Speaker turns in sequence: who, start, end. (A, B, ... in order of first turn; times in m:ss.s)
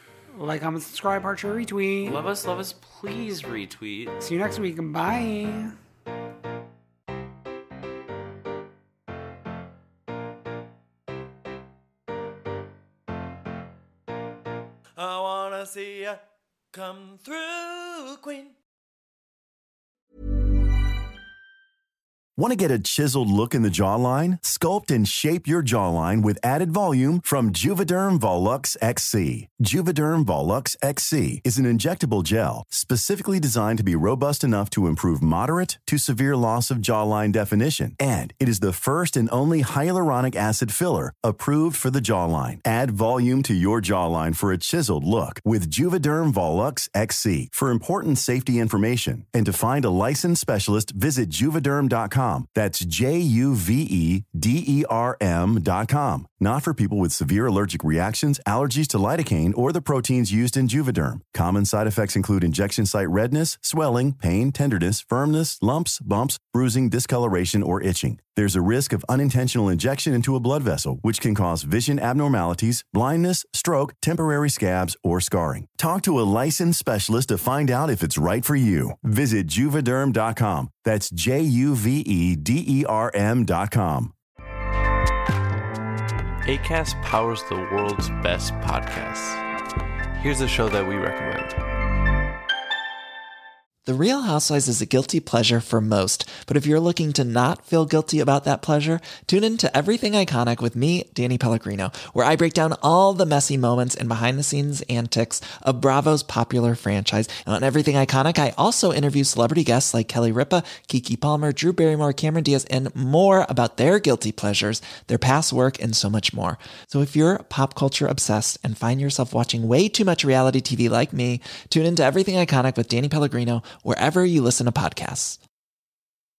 0:00.3-0:02.2 A
0:02.0-0:04.2 B
0:04.2-0:05.7 A
0:15.0-0:16.2 C
0:16.7-0:18.6 C
0:22.4-1:24.1 D
1:26.4-1:29.4 E
1:30.2-1:31.6 E
1:33.8-2:05.4 F